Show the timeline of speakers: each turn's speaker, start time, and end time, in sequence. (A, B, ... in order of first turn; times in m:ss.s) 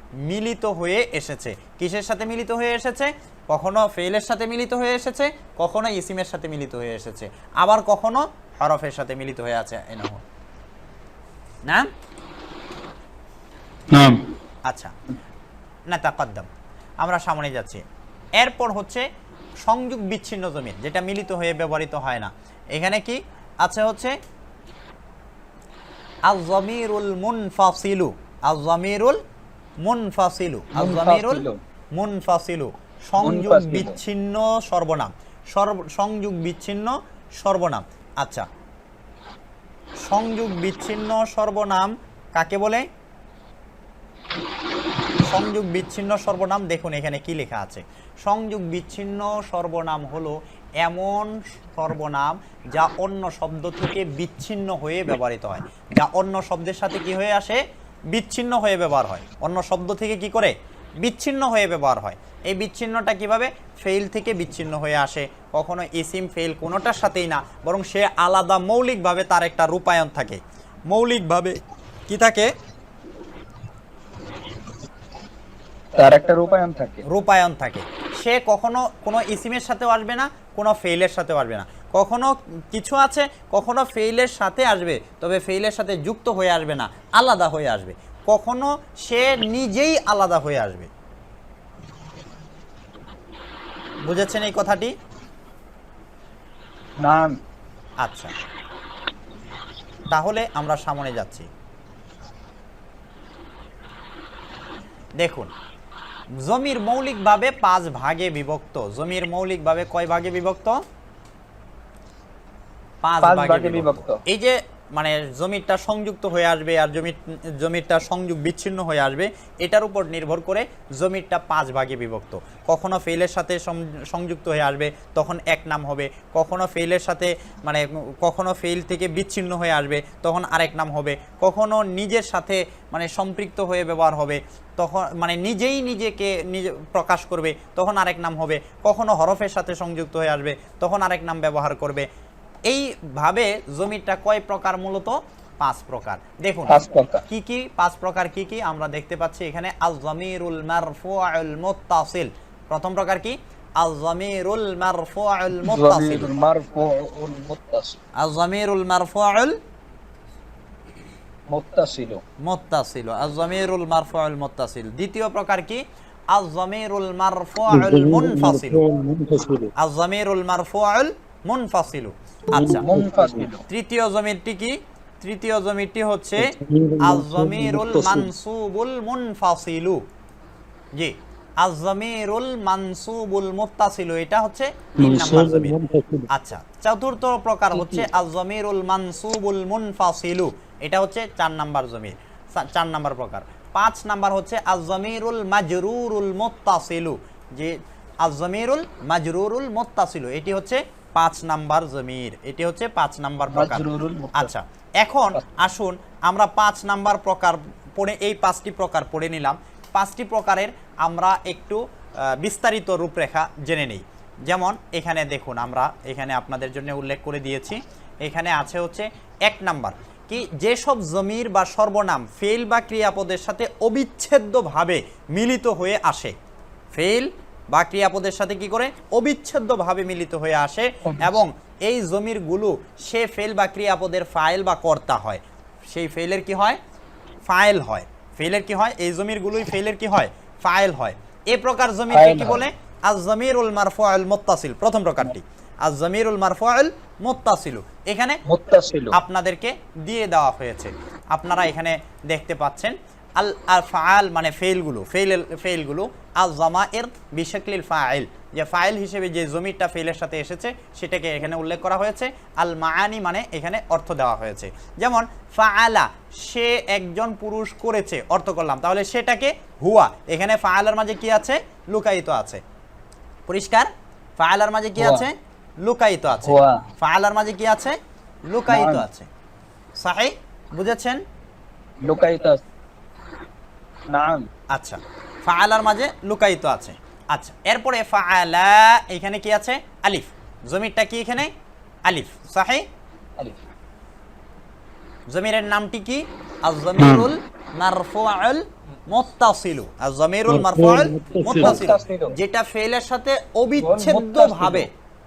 0:00.2-0:10.2 A
0:13.9-0:14.2 B
0:14.7-0:14.9 A
0:15.9-0:16.5 A
0:17.0-0:17.8 A
0:18.4-0:19.0 A
0:19.6-0:24.1 A
0:26.2-0:29.2 A
0:29.8-0:31.4 A
0:30.8-0:31.6 C
0:31.9-0:38.5 A
0:33.2-0:34.0 C
0:40.1-0:42.8 A
0:45.2-1:12.5 A
1:15.9-1:17.0 C
1:17.1-1:30.9 A
1:34.0-1:34.9 A
1:37.0-1:37.4 C
1:38.0-1:38.3 A
1:40.1-1:41.5 A
1:45.2-1:45.5 A
1:46.4-1:50.8 A
1:53.0-2:22.1 A
1:53.2-1:54.2 C
2:22.7-2:36.3 A
2:26.7-2:27.2 C
2:35.6-2:38.0 C
2:38.2-2:39.6 A
2:41.5-2:42.2 C
2:42.4-2:48.8 A
2:47.7-2:49.7 B
2:49.8-2:52.8 A
2:52.5-2:53.5 B
2:52.6-2:53.6 C
2:53.7-3:00.0 A
2:56.4-2:58.3 B
3:01.0-3:05.8 A
3:05.0-3:06.3 B
3:06.3-3:46.4 A
3:07.8-3:08.0 C
3:23.5-3:24.5 C
3:46.9-3:56.8 A
3:51.0-3:51.4 C
3:57.5-4:08.4 A
4:02.1-4:02.6 C
4:08.5-4:09.2 C
4:09.1-4:32.6 A
4:33.5-4:38.0 A
4:35.0-4:35.3 C
4:36.4-4:36.8 C
4:38.5-4:39.3 A
4:38.7-4:39.0 C
4:40.0-4:41.2 A
4:42.0-4:42.6 C
4:44.1-4:44.5 C
4:44.7-4:51.5 A
4:52.0-4:52.9 A
4:55.3-5:04.9 A
4:57.0-4:57.3 B
5:00.5-5:01.9 B
5:01.5-5:02.4 C
5:03.8-5:04.9 C